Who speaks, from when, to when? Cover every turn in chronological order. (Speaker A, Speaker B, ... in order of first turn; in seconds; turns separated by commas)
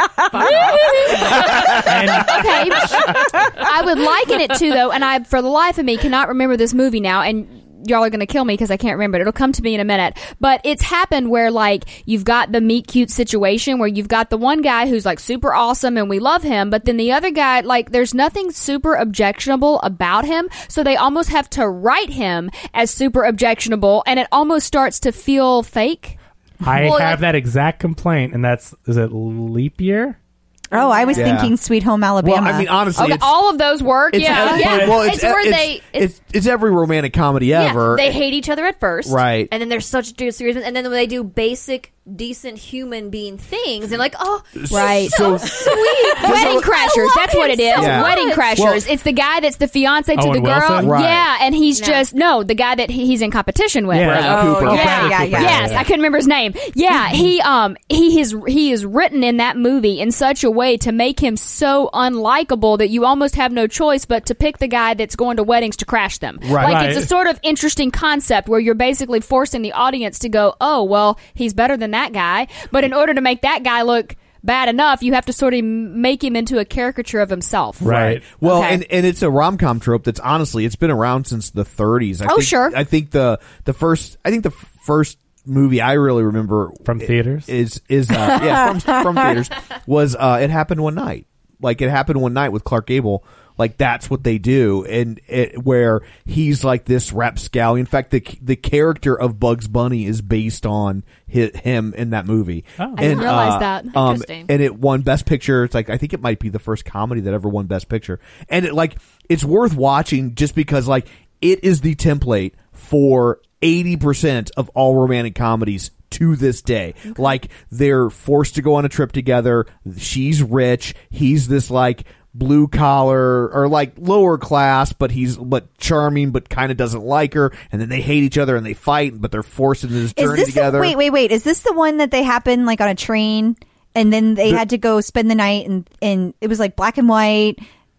Speaker A: 0.3-1.7, Speaker B: 0.3-26.2, Speaker C: 1.2-2.1, Speaker D: 1.7-2.6, Speaker D: 26.6-30.2, Speaker B: 26.8-27.1, Speaker A: 30.7-31.3, Speaker E: 30.7-32.7, Speaker C: 31.1-31.6, Speaker C: 32.2-33.4, Speaker B: 33.0-34.8, Speaker C: 34.1-38.2, Speaker A: 34.2-36.1, Speaker D: 34.4-35.0, Speaker A: 37.5-48.5, Speaker C: 39.0-39.5, Speaker C: 44.6-46.7, Speaker B: 44.7-45.5, Speaker B: 46.2-77.8, Speaker C: 47.8-48.9, Speaker D: 50.1-51.0, Speaker C: 50.8-51.3, Speaker A: 51.8-52.1, Speaker D: 53.9-55.9, Speaker C: 54.0-55.5, Speaker E: 54.3-55.6, Speaker A: 54.6-55.1, Speaker C: 66.4-66.9, Speaker D: 66.6-67.1, Speaker C: 77.8-131.0, Speaker D: 77.8-78.2, Speaker A: 78.5-78.8, Speaker B: 82.3-82.8, Speaker D: 86.9-87.5, Speaker D: 102.8-103.2, Speaker B: 103.0-103.9, Speaker A: 103.0-104.5, Speaker E: 130.2-137.6